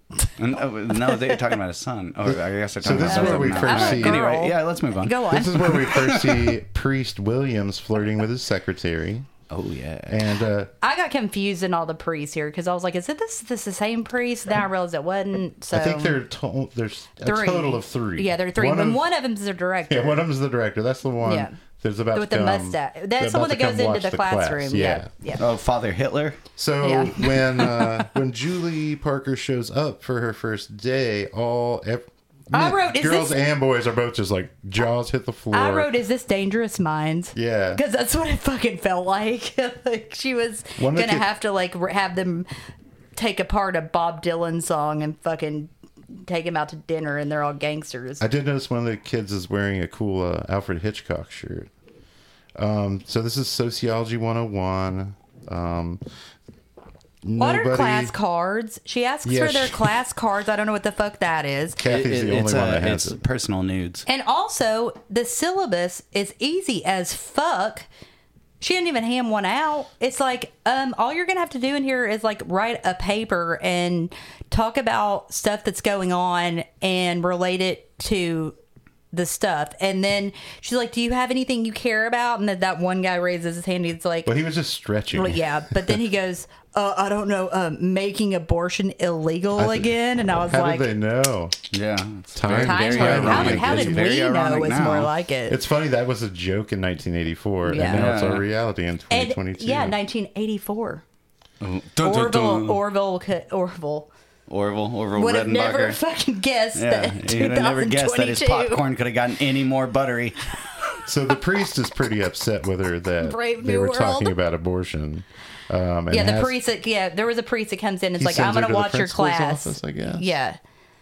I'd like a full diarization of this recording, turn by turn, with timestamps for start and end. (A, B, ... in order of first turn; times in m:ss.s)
0:00.4-0:06.5 A
0:01.1-0:01.4 B
0:02.3-0:04.2 C
0:03.1-0:05.8 B
0:05.3-0:09.3 C
0:09.5-0:10.2 A
0:10.0-0:10.7 C
0:10.8-0:16.2 B
0:15.7-0:19.0 C
0:17.2-0:20.2 B
0:19.9-0:25.1 C
0:21.2-0:21.5 B
0:22.1-0:25.4 B
0:25.4-0:26.4 A
0:26.6-0:35.9 C
0:26.8-0:28.1 B
0:32.5-0:33.4 B
0:35.5-0:42.5 B
0:37.3-0:37.8 C
0:40.8-0:41.3 C
0:43.2-0:48.2 B
0:48.2-0:51.7 C
0:52.6-0:56.0 C
0:57.2-0:58.1 C
0:57.4-1:01.8 B
0:59.2-0:59.8 C
1:01.8-1:03.2 C
1:01.8-1:04.0 A
1:04.1-1:07.9 B
1:08.6-1:18.6 B
1:19.1-1:24.3 B
1:24.2-1:26.0 C
1:25.1-1:30.9 B
1:29.5-1:29.9 C
1:30.5-1:31.6 C
1:31.7-1:35.1 A
1:32.3-1:34.1 C
1:32.6-1:35.6 B
1:35.5-1:40.0 C
1:37.7-1:38.1 B
1:37.8-1:38.4 A
1:39.1-1:41.0 B
1:41.6-1:42.8 A
1:42.0-1:44.1 B
1:44.5-1:46.0 A
1:45.2-1:48.8 B
1:46.8-1:50.5 A
1:51.0-1:56.6 C
1:53.2-1:54.4 B
1:56.1-2:00.6 B
1:58.2-2:00.4 C